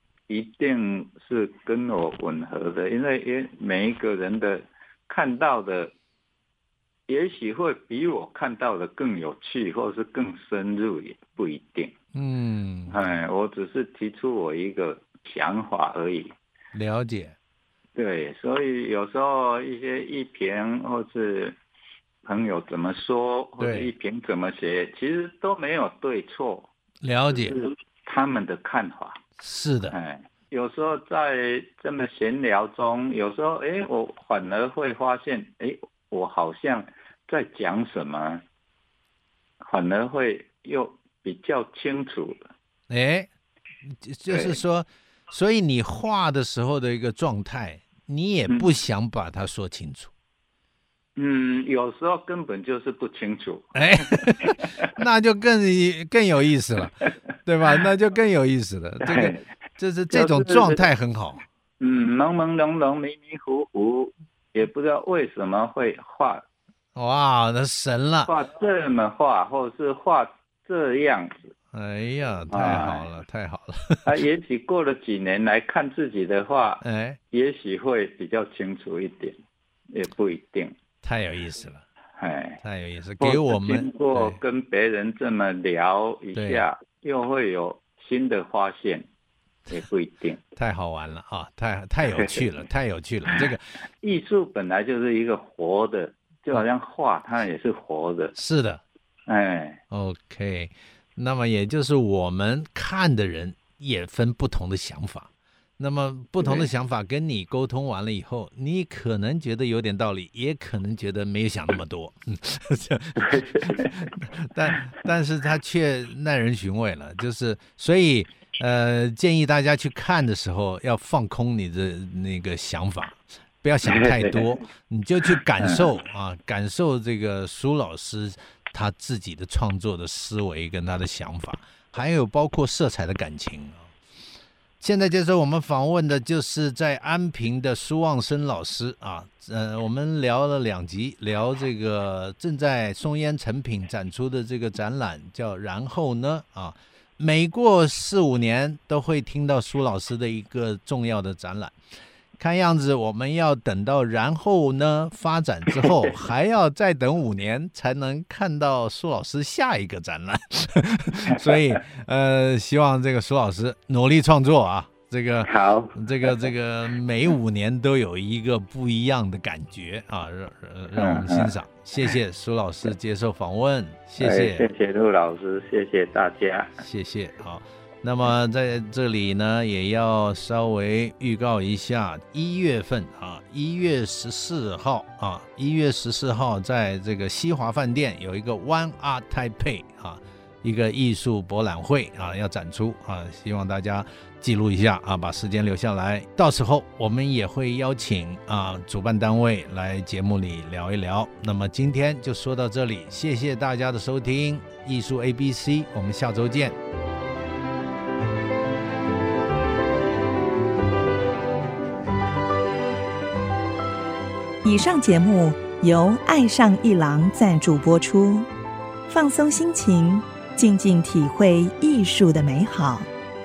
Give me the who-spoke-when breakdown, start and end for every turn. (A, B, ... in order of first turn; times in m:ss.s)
0:00.3-0:05.9 A
0:07.1-0:11.9 A
0:12.1-0:13.0 B
0:12.9-0:16.3 A
0:16.7-0:17.4 B
0:18.0-0:21.6 A
0:22.2-0:26.7 A
0:23.6-0:23.9 B
0:27.0-0:27.6 B
0:27.3-0:29.2 A
0:29.4-0:30.0 B
0:29.9-0:38.4 A
0:39.6-0:42.4 A
0:42.9-0:43.3 B
0:43.8-0:50.1 B
0:44.3-0:44.6 A
0:51.2-0:54.9 A
0:53.7-1:01.4 B
0:59.0-0:59.4 A
1:00.1-1:00.8 A
1:01.8-1:06.4 A
1:07.0-1:08.3 B
1:08.3-1:11.5 A
1:11.7-1:14.1 B
1:12.5-1:13.1 A
1:14.0-1:19.4 A
1:16.8-1:17.2 B
1:19.9-1:20.8 A
1:21.0-1:21.8 B
1:22.2-1:22.6 A
1:22.6-1:24.4 B
1:23.2-1:29.1 A
1:26.4-1:26.7 B
1:29.7-1:30.4 A
1:30.6-1:33.7 B
1:32.1-1:32.4 A
1:34.0-1:38.4 A
1:38.4-1:38.8 B
1:39.3-1:39.8 A
1:39.9-2:13.9 B
1:46.4-1:46.7 A
1:53.2-1:54.1 A
2:03.8-2:04.5 A
2:05.6-2:05.9 A
2:14.8-2:31.7 B
2:32.4-2:54.7 B
2:41.3-2:41.8 A
2:45.4-2:46.5 A
2:51.0-2:51.5 A
2:54.2-2:56.8 A
2:56.8-3:26.8 B
3:34.6-3:38.5 C
3:39.1-3:43.1 C